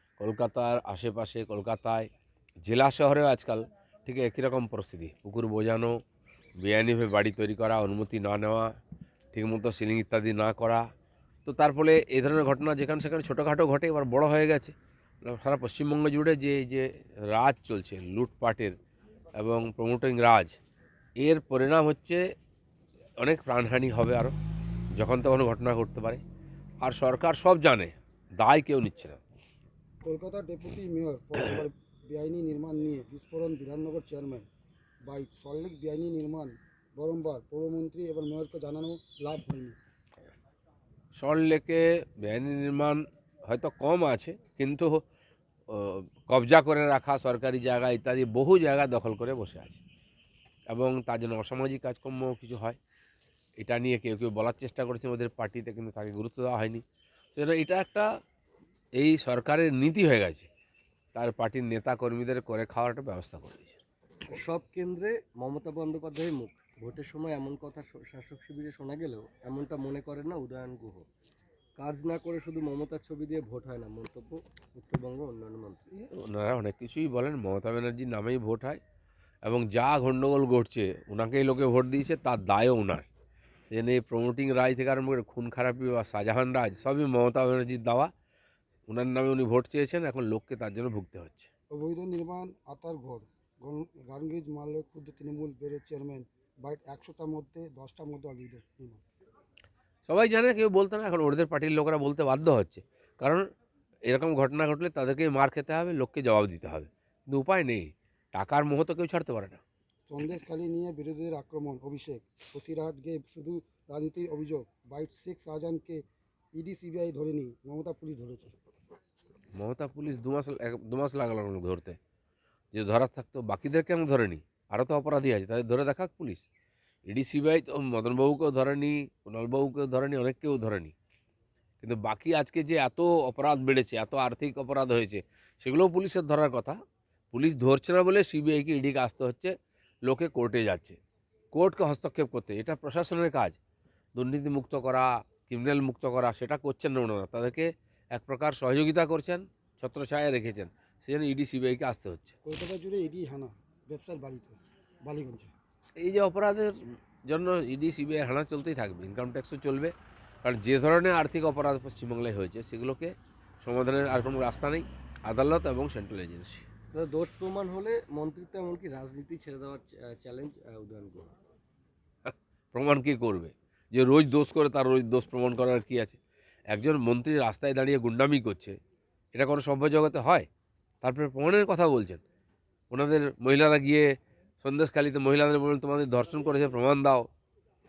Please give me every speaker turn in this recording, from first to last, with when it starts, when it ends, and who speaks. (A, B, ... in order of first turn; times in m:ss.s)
0:00.2-0:02.1 A
0:02.6-0:06.0 A
0:06.6-0:08.7 A
0:09.3-0:10.8 A
0:11.4-0:18.8 A
0:19.4-0:20.6 A
0:21.2-0:22.2 A
0:23.2-0:24.3 A
0:25.0-0:26.2 A
0:26.8-0:29.2 A
0:30.0-0:34.5 B
0:35.0-0:39.8 B
0:41.2-0:45.0 A
0:45.7-0:49.8 A
0:50.7-0:52.8 A
0:53.6-0:58.1 A
0:59.0-1:00.5 A
1:01.1-1:03.8 A
1:04.3-1:11.1 C
1:11.8-1:15.8 C
1:15.8-1:18.8 A
1:19.4-1:23.1 A
1:23.7-1:28.1 A
1:28.9-1:31.5 A
1:31.7-1:39.0 B
1:40.1-1:43.5 A
1:44.1-1:49.6 A
1:50.1-1:56.0 B
1:56.6-1:58.5 B
1:59.6-2:02.0 A
2:02.7-2:06.5 A
2:07.1-2:10.9 A
2:11.8-2:16.8 A
2:17.3-2:19.5 A
2:20.1-2:21.0 A
2:21.5-2:23.6 A
2:24.2-2:32.4 A
2:32.4-2:35.5 B
2:36.0-2:36.8 A
2:37.3-2:39.9 A
2:40.4-2:46.7 A
2:46.9-2:51.4 C
2:52.2-2:56.2 A
2:56.7-2:58.8 A
2:59.3-3:00.5 A
3:01.0-3:02.2 A
3:02.9-3:07.3 A